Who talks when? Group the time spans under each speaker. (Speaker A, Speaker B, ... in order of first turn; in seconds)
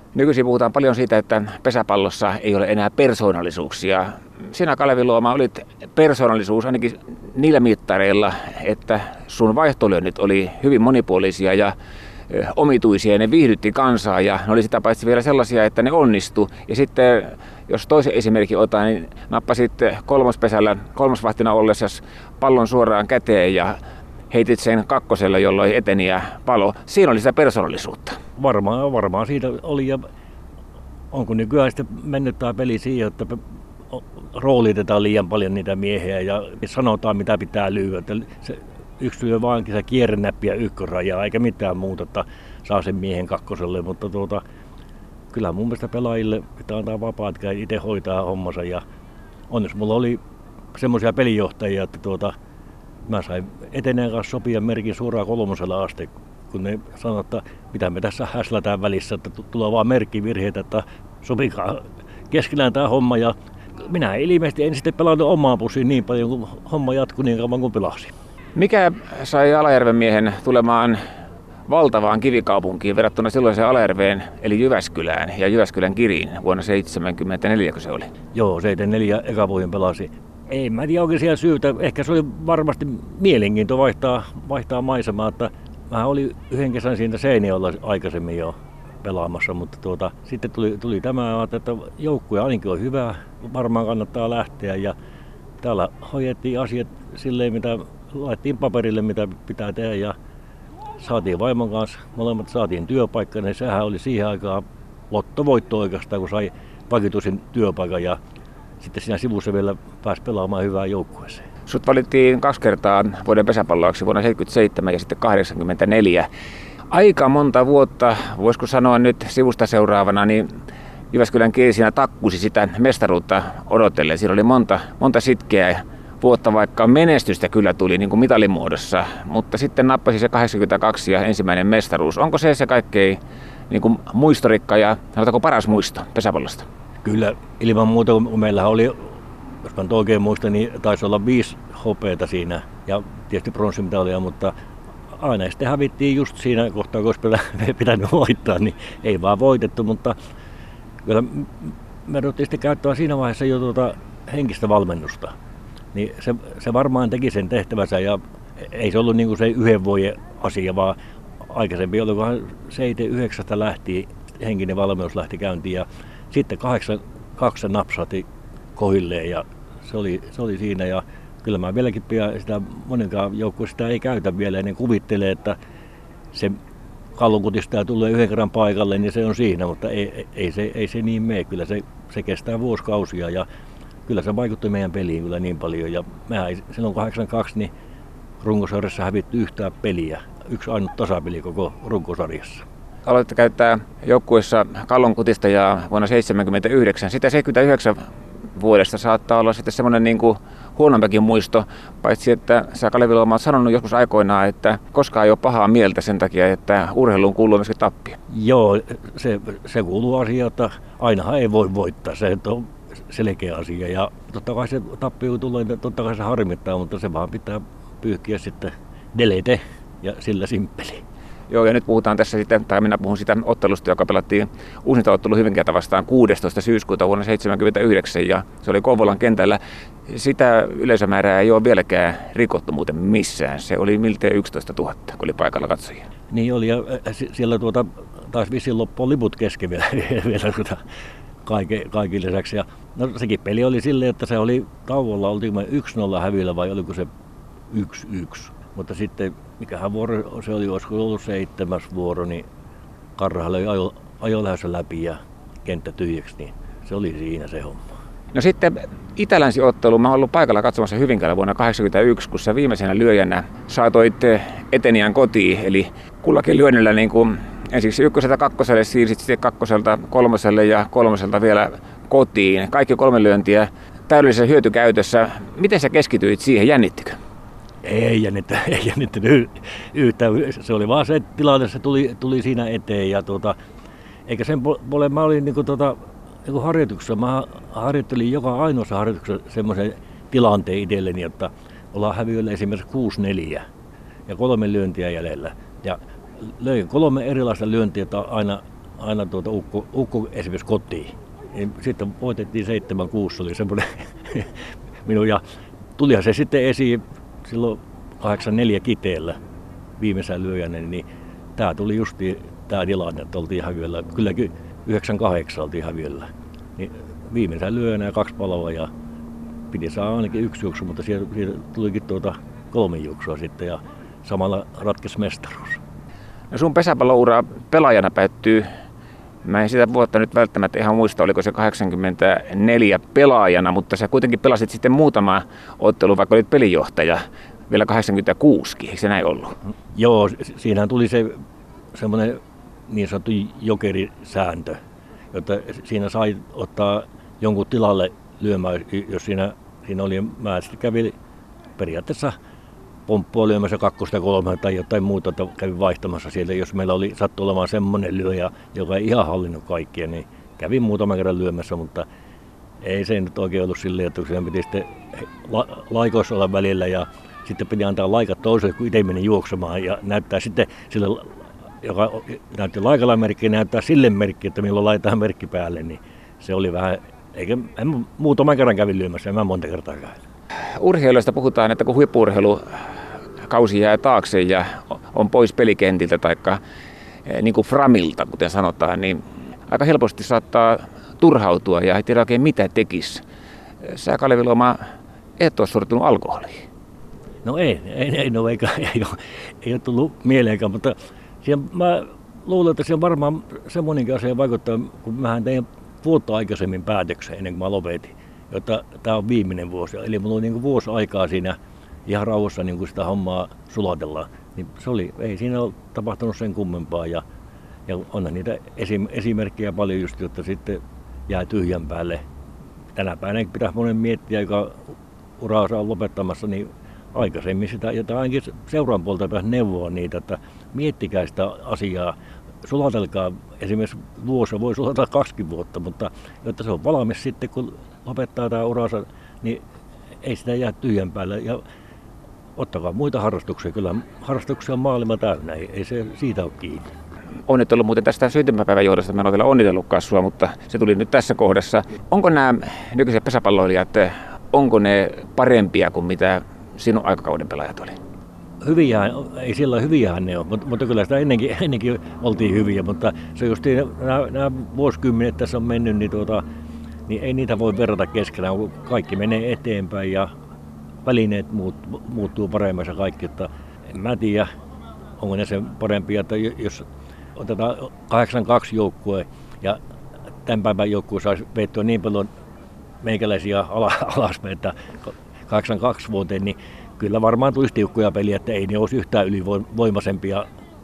Speaker A: 0.1-11.7, 12.3-23.8, 24.3-28.2, 68.5-71.0, 71.7-78.1, 111.7-116.3, 116.9-120.4, 121.1-133.2, 133.7-136.7, 193.0-198.0, 198.6-208.2, 221.5-236.0, 258.3-277.1, 326.5-328.6, 329.4-339.5, 380.8-382.6, 383.5-386.6, 387.3-393.2, 393.8-394.8, 395.4-396.6, 447.5-457.9
Speaker B: 28.4-30.0, 31.1-44.4, 45.3-48.8, 49.5-50.2, 50.7-52.3, 53.1-68.1, 78.3-94.9, 95.6-100.1, 101.0-108.2, 108.8-111.4, 137.0-144.5, 145.1-150.2, 151.0-155.3, 155.9-175.6, 176.3-176.6, 177.2-183.4, 184.1-187.7, 188.4-192.6, 208.3-221.0, 236.3-240.8, 241.4-247.1, 247.7-252.4, 253.2-257.8, 277.8-283.5, 284.3-293.6, 294.3-304.5, 305.0-305.4, 306.0-309.4, 310.0-311.0, 311.6-316.2, 316.8-318.9, 319.7-325.8, 339.9-341.4, 341.9-344.8, 345.3-351.1, 351.8-352.3, 353.1-362.0, 362.8-380.2, 397.4-417.2, 417.9-422.2, 422.9-424.8, 425.4-439.6, 440.2-441.6, 442.6-446.9, 458.6-466.4, 467.1-470.3, 471.0-474.5, 475.2-476.8, 477.4-479.8, 480.4-482.3, 483.0-490.4